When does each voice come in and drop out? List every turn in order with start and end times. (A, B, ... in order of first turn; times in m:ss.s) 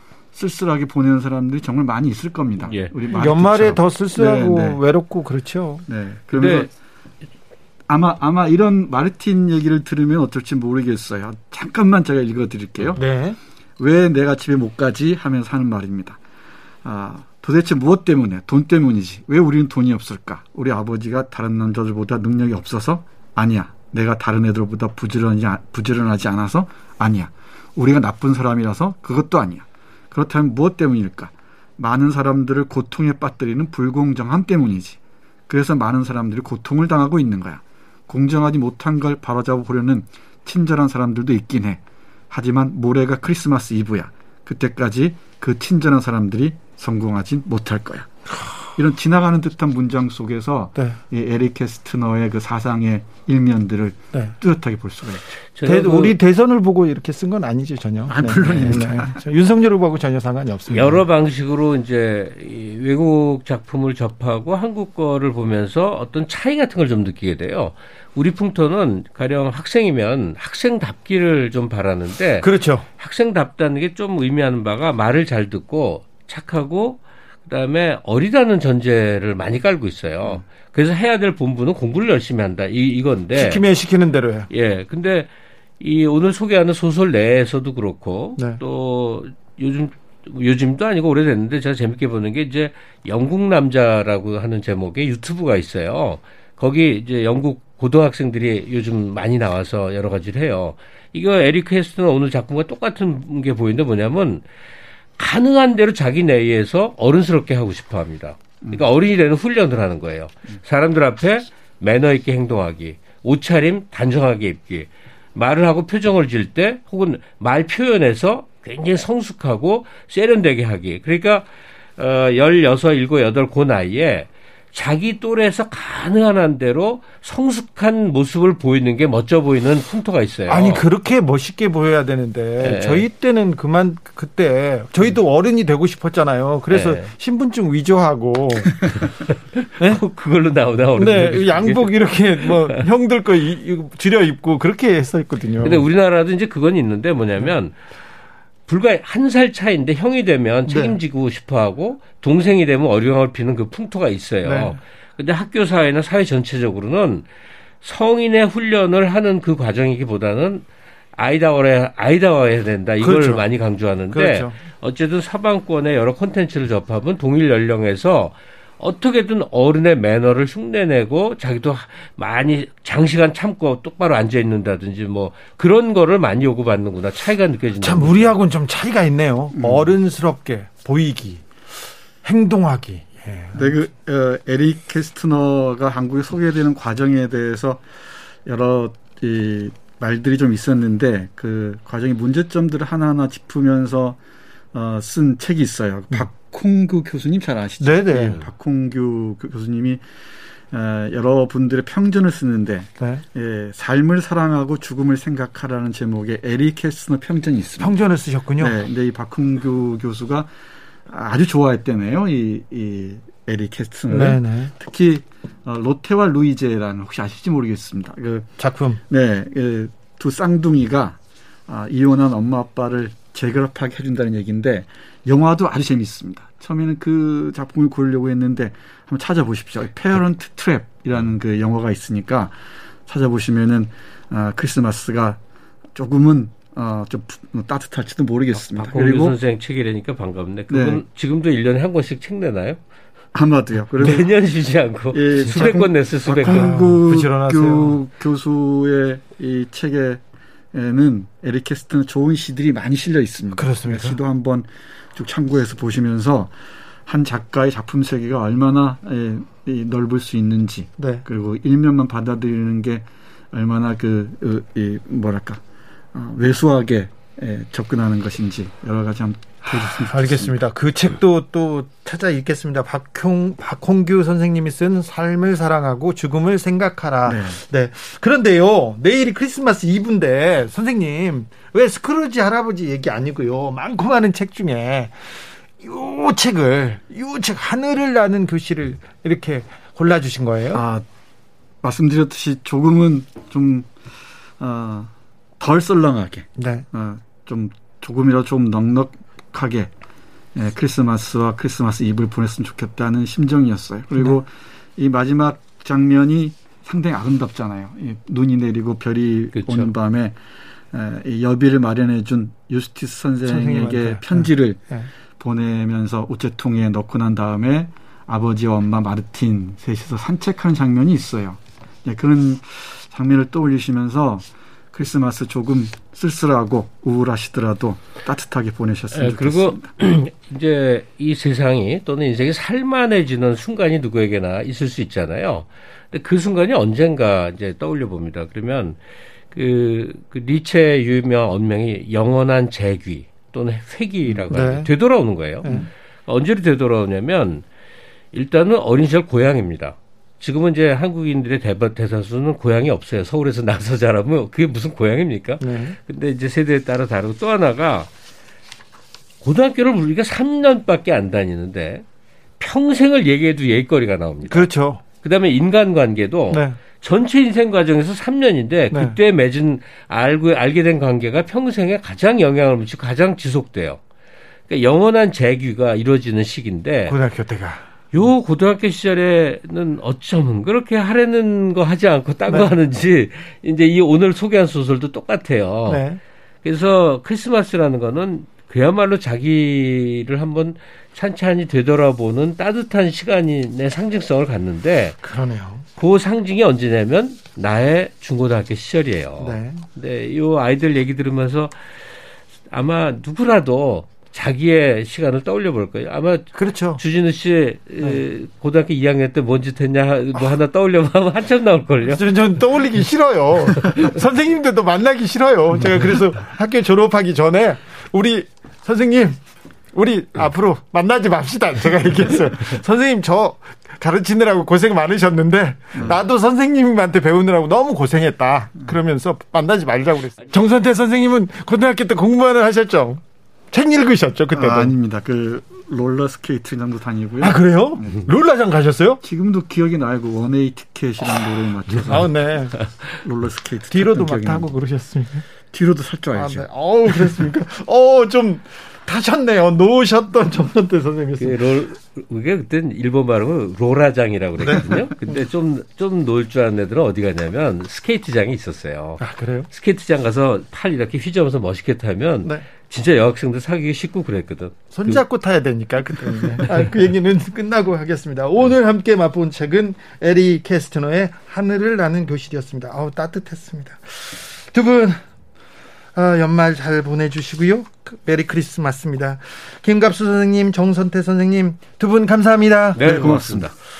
0:00.3-0:04.8 A
0:02.7-0:02.9 B
0:03.1-0:05.8 C
0:05.9-0:06.7 A
0:06.4-0:06.7 B
0:07.9-0:13.0 A
0:13.0-0:13.4 C
0:13.8-0:16.2 A
0:16.8-0:41.8 A
0:42.3-0:48.1 A
0:48.8-0:55.2 A
0:55.6-0:56.1 B
0:55.6-1:01.0 C
0:58.1-0:59.2 A
1:00.7-1:12.5 B
1:12.4-1:12.8 C
1:13.0-1:23.6 B
1:23.4-1:24.5 C
1:24.5-1:25.3 B
1:25.8-1:44.4 B
1:45.2-2:10.8 B
2:10.5-2:19.0 C
2:12.6-2:13.1 B
2:16.7-2:17.1 B
2:18.9-2:22.8 B
2:21.0-2:25.9 C
2:25.6-2:27.8 B
2:28.7-2:37.2 B
2:30.7-2:31.0 C
2:34.4-2:34.8 C
2:37.8-2:40.6 B
2:41.2-2:58.3 B
2:43.0-2:43.4 C
2:44.1-2:44.6 C
2:57.8-3:01.4 C
2:59.5-3:00.0 A
3:02.2-3:03.8 C
3:03.5-3:07.8 A
3:08.4-3:14.2 A
3:14.7-3:20.0 A
3:17.8-3:18.4 C
3:20.7-3:28.0 A
3:23.0-3:23.2 C
3:27.8-3:28.8 C
3:28.6-3:30.5 A
3:31.1-3:38.5 A
3:34.1-3:34.7 C
3:38.6-3:39.0 C
3:39.1-3:52.5 A
3:53.1-3:55.4 A
3:56.0-3:59.4 A
3:58.7-4:02.8 B
4:00.7-4:01.0 A
4:03.3-4:04.2 A
4:04.0-4:06.7 B
4:05.1-4:10.2 A
4:05.5-4:05.9 C
4:06.4-4:08.0 C
4:10.7-4:16.5 A
4:13.6-4:14.2 C
4:17.1-4:25.6 A
4:21.0-4:21.3 C
4:26.1-4:30.6 A
4:29.9-4:45.2 C
4:37.2-4:37.6 A
4:45.8-4:50.8 C
4:50.7-4:51.0 A
4:51.8-4:53.9 A
4:54.6-4:59.9 A
4:56.6-4:56.9 C
5:00.6-5:10.4 A
5:09.5-5:09.9 B
5:10.9-5:14.8 A
5:13.5-5:15.1 C
5:15.4-5:29.9 A
5:29.1-5:39.0 B
5:39.5-5:47.6 B
5:44.3-5:44.5 A
5:44.5-5:44.9 C
5:48.3-5:58.1 B
5:55.6-5:56.0 C
5:59.4-6:02.0 B
6:02.6-6:04.7 B
6:04.5-6:05.0 C
6:05.2-6:14.0 B
6:06.5-6:06.8 C
6:08.9-6:09.2 C
6:14.7-6:17.1 B
6:17.1-6:17.8 C
6:18.1-6:26.0 B
6:22.5-6:22.7 C
6:25.9-6:26.2 C
6:26.6-6:35.2 B
6:35.2-6:35.9 C
6:36.0-6:41.9 B
6:39.4-6:39.9 C
6:42.7-6:52.3 B
6:46.6-6:47.0 C
6:52.1-6:59.4 C
6:53.8-6:54.1 B
6:59.9-7:13.2 C
7:06.0-7:06.2 A
7:13.7-7:15.0 C
7:14.5-7:18.2 A
7:17.4-7:19.2 C
7:19.2-7:22.3 A
7:22.0-7:22.8 C
7:22.8-7:23.1 B
7:23.2-7:24.7 A
7:23.9-7:25.4 C
7:25.7-7:27.3 A
7:26.3-7:31.8 C
7:31.4-7:45.2 B
7:34.6-7:35.4 C
7:39.2-7:39.7 C
7:44.9-7:55.2 C
7:56.1-8:03.1 C
8:03.0-8:03.7 B
8:03.0-8:03.7 A